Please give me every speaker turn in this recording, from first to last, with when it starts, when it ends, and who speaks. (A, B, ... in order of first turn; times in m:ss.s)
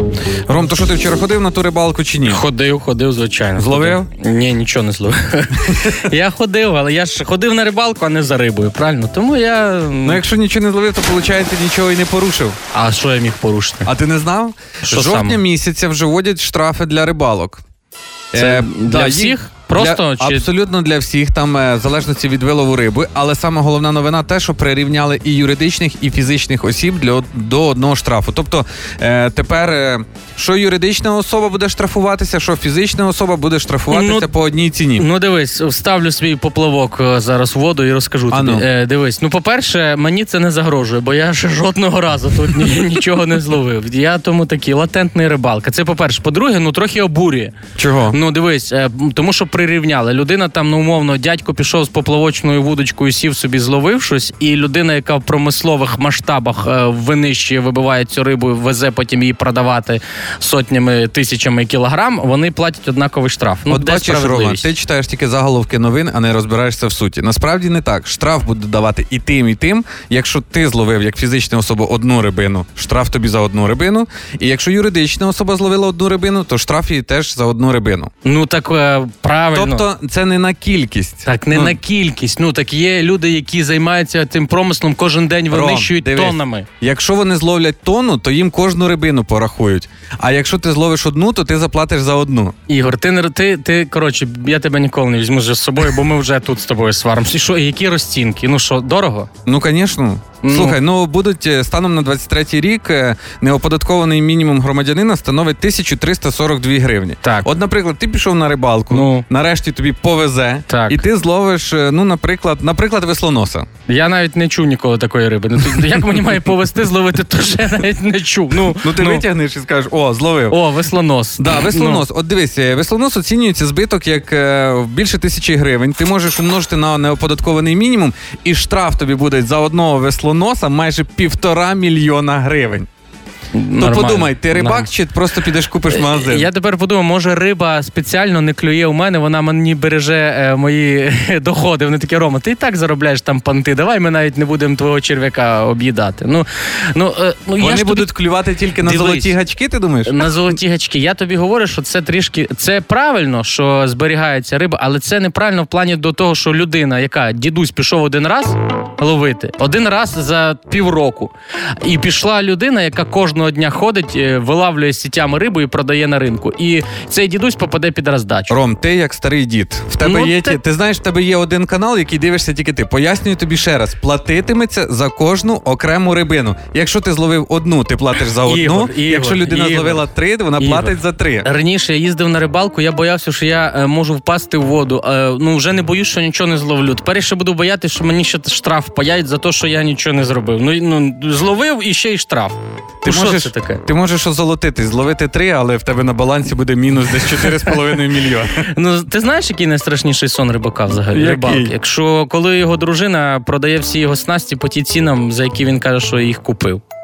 0:00.5-0:02.4 A
0:02.2-0:10.2 B
0:03.6-0:04.1 A
0:05.7-0:06.0 A
0:10.0-0:12.6 A
0:12.7-0:13.9 B
0:13.8-0:17.6 A
0:14.8-0:15.4 B
0:18.3-0:35.0 A
0:18.3-0:20.5 B
0:33.9-0:34.3 B
0:34.9-0:47.5 B
0:38.3-0:38.6 A
0:47.8-0:48.2 A
0:48.1-1:04.7 B
1:03.7-1:18.1 A
1:18.2-1:19.9 B
1:19.5-1:21.8 A
1:21.2-1:26.7 B
1:25.5-1:32.5 A
1:32.7-1:39.3 B
1:39.4-1:53.7 A
1:40.4-1:40.8 B
1:47.2-1:47.5 B
1:48.9-1:49.2 B
1:50.7-1:51.0 B
1:53.8-1:59.2 B
1:58.7-2:00.6 A
2:00.5-2:02.0 B
2:01.4-2:12.9 A
2:13.5-2:14.9 B
2:13.8-2:16.5 A
2:15.8-2:28.1 B
2:27.6-2:30.4 A
2:28.8-2:29.3 B
2:30.0-2:48.6 B
2:48.5-3:01.5 A
2:50.0-2:50.6 B
2:58.4-3:00.0 B
3:00.6-3:13.8 B
3:13.0-3:18.7 A
3:17.3-3:18.0 B
3:18.6-3:26.8 B
3:21.1-3:21.7 A